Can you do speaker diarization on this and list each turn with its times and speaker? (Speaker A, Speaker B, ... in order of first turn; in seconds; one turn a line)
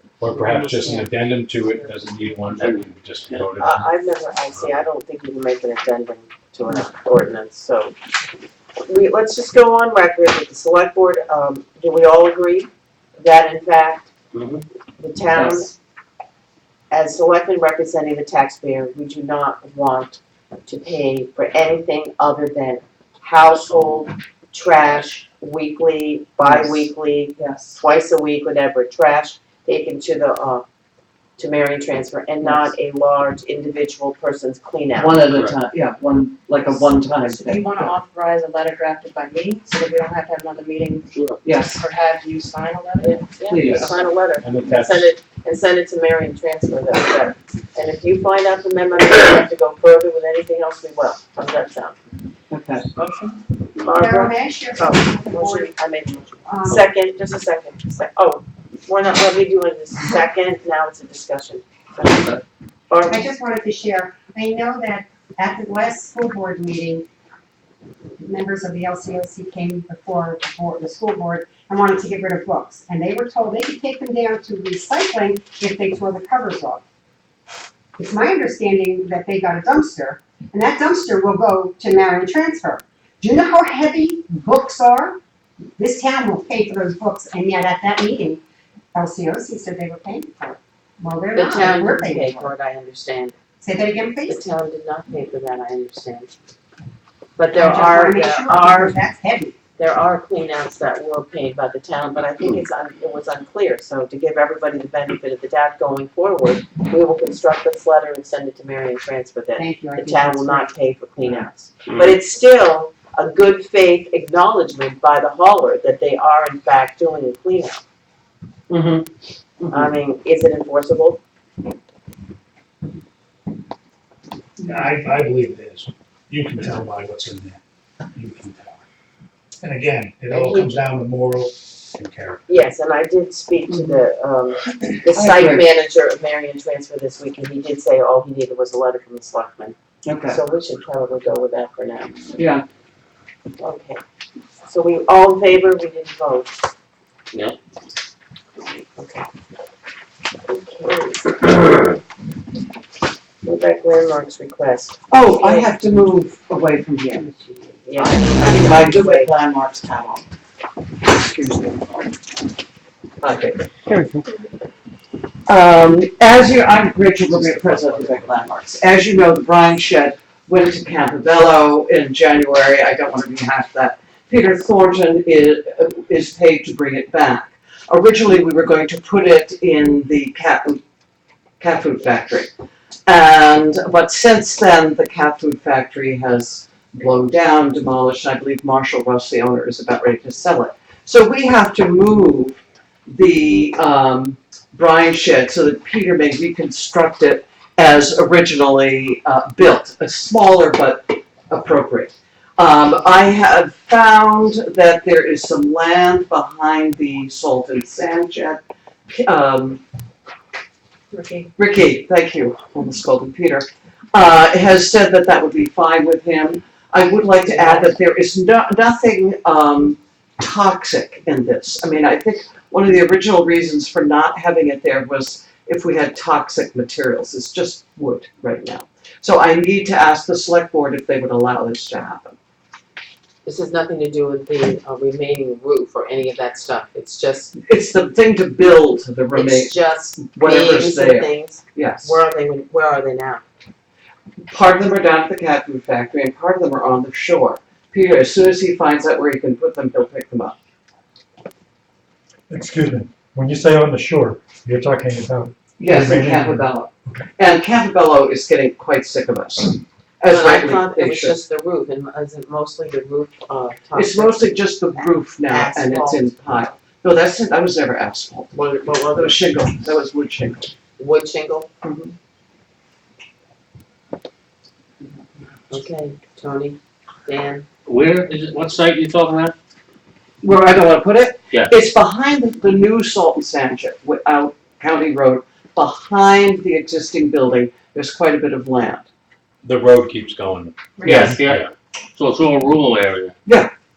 Speaker A: 0.2-1.1
Speaker B: 0.4-3.9
Speaker C: 0.5-1.0
Speaker C: 3.6-8.0
Speaker C: 8.8-14.1
Speaker D: 14.3-14.6
Speaker C: 15.0-15.8
Speaker E: 15.4-15.6
Speaker C: 16.9-30.6
Speaker E: 26.4-26.9
Speaker E: 27.4-27.8
Speaker C: 31.4-35.2
Speaker E: 32.4-32.7
Speaker E: 35.0-37.9
Speaker F: 37.1-41.1
Speaker E: 41.4-41.8
Speaker F: 41.7-43.9
Speaker C: 43.0-52.0
Speaker E: 43.5-43.9
Speaker B: 44.4-45.1
Speaker E: 52.5-52.9
Speaker F: 52.9-53.4
Speaker C: 53.8-63.3
Speaker G: 53.9-55.7
Speaker G: 56.5-56.9
Speaker G: 63.1-67.1
Speaker G: 68.2-76.8
Speaker G: 78.0-85.2
Speaker G: 85.8-88.4
Speaker G: 88.9-92.5
Speaker C: 91.3-93.4
Speaker G: 93.6-94.4
Speaker C: 94.3-96.3
Speaker C: 97.4-99.0
Speaker G: 97.5-99.6
Speaker C: 99.8-117.8
Speaker G: 109.6-110.7
Speaker C: 119.7-121.2
Speaker H: 124.6-127.6
Speaker H: 128.1-128.8
Speaker H: 129.6-132.4
Speaker C: 130.3-130.8
Speaker C: 132.5-139.8
Speaker E: 133.7-134.0
Speaker E: 135.1-135.7
Speaker E: 140.1-140.4
Speaker C: 140.3-142.4
Speaker E: 142.4-142.6
Speaker C: 143.6-144.0
Speaker C: 144.7-146.6
Speaker C: 149.0-149.3
Speaker C: 150.5-151.6
Speaker C: 153.4-155.7
Speaker E: 155.1-157.3
Speaker C: 157.2-159.3
Speaker E: 158.0-160.2
Speaker E: 161.0-162.2
Speaker E: 163.2-163.6
Speaker E: 165.5-180.8
Speaker E: 181.6-182.5
Speaker E: 183.1-209.8
Speaker F: 211.1-211.5
Speaker E: 211.6-232.4
Speaker F: 217.4-217.9
Speaker C: 233.4-237.5
Speaker E: 237.6-242.2
Speaker C: 239.3-243.4
Speaker E: 244.5-250.6
Speaker A: 252.5-257.2
Speaker E: 255.8-261.4
Speaker C: 260.3-266.4
Speaker E: 263.9-268.6
Speaker C: 268.5-269.4
Speaker E: 269.1-270.7
Speaker C: 271.0-271.7
Speaker E: 271.8-272.1
Speaker C: 275.7-277.7
Speaker D: 277.9-279.5
Speaker E: 280.4-289.1
Speaker B: 289.6-290.7
Speaker F: 291.0-291.3
Speaker A: 291.0-291.5
Speaker E: 291.0-291.3
Speaker D: 291.0-291.6
Speaker D: 292.2-293.4
Speaker E: 293.5-293.7